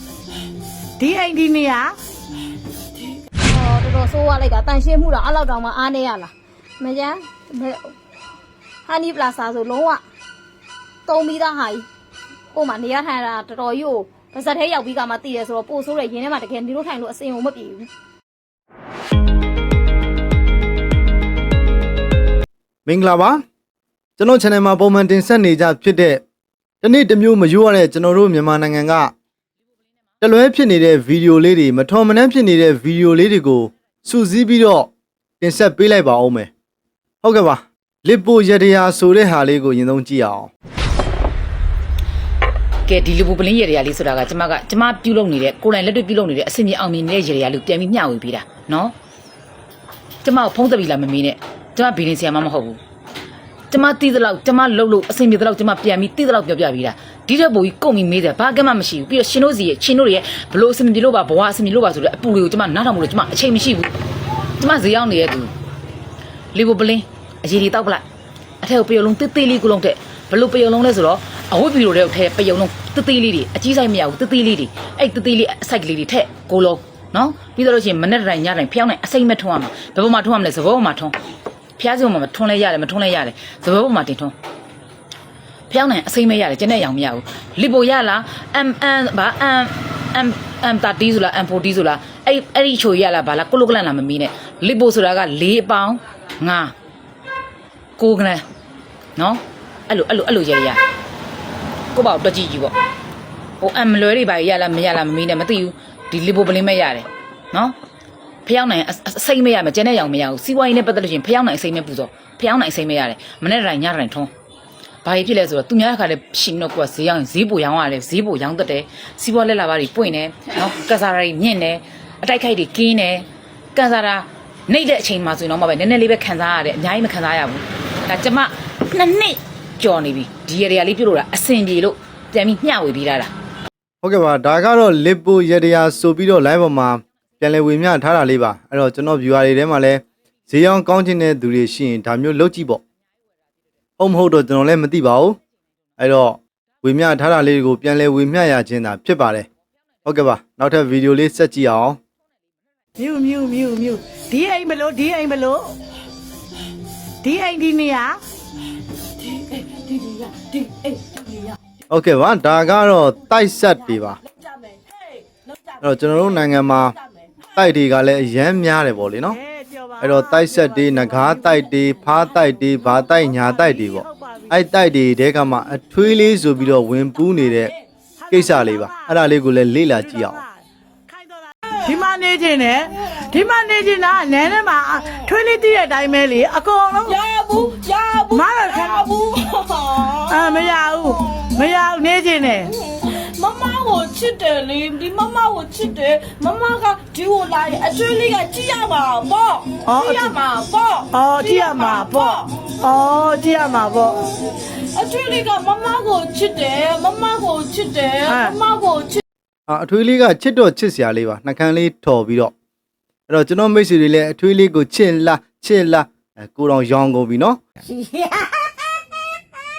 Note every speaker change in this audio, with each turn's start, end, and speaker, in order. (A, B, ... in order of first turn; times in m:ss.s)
0:01.0-0:02.0 A
0:03.4-0:07.9 B
0:08.9-0:10.0 B
0:11.1-0:11.9 B
0:12.5-0:17.9 B
0:22.9-0:23.4 C
0:24.2-0:26.2 C
0:26.8-0:29.1 C
0:30.2-0:34.9 C
0:35.4-0:36.5 C
0:37.2-0:40.5 C
0:42.9-0:48.9 D
0:50.2-0:52.8 D
0:53.7-1:03.9 D
1:04.6-1:05.5 D
1:06.5-1:08.0 D
1:08.6-1:21.2 D
1:21.8-1:24.3 D
1:25.7-1:36.7 D
1:38.0-1:38.4 D
1:39.2-1:40.8 D
1:42.0-1:42.7 D
1:43.6-1:47.8 D
1:48.4-1:54.3 D
1:55.0-2:13.3 D
2:14.0-2:22.8 C
2:24.0-2:25.4 C
2:26.0-2:29.5 C
2:30.0-2:32.0 C
2:33.0-2:35.7 A
2:37.2-2:38.2 A
2:39.2-2:41.5 E
2:41.9-2:44.2 C
2:44.3-2:45.8 E
2:45.8-2:47.0 C
2:47.6-2:49.4 C
2:49.3-2:51.5 A
2:50.0-2:57.7 C
2:53.3-2:54.5 A
2:58.2-2:59.1 A
2:58.3-3:00.4 C
3:00.1-3:07.2 A
3:07.1-3:10.4 E
3:08.3-3:09.1 A
3:10.3-3:12.7 A
3:12.8-3:22.5 E
3:19.8-3:20.4 A
3:21.1-3:24.3 A
3:24.7-3:29.2 E
3:28.3-3:28.6 A
3:29.7-3:32.5 C
3:33.3-3:37.6 C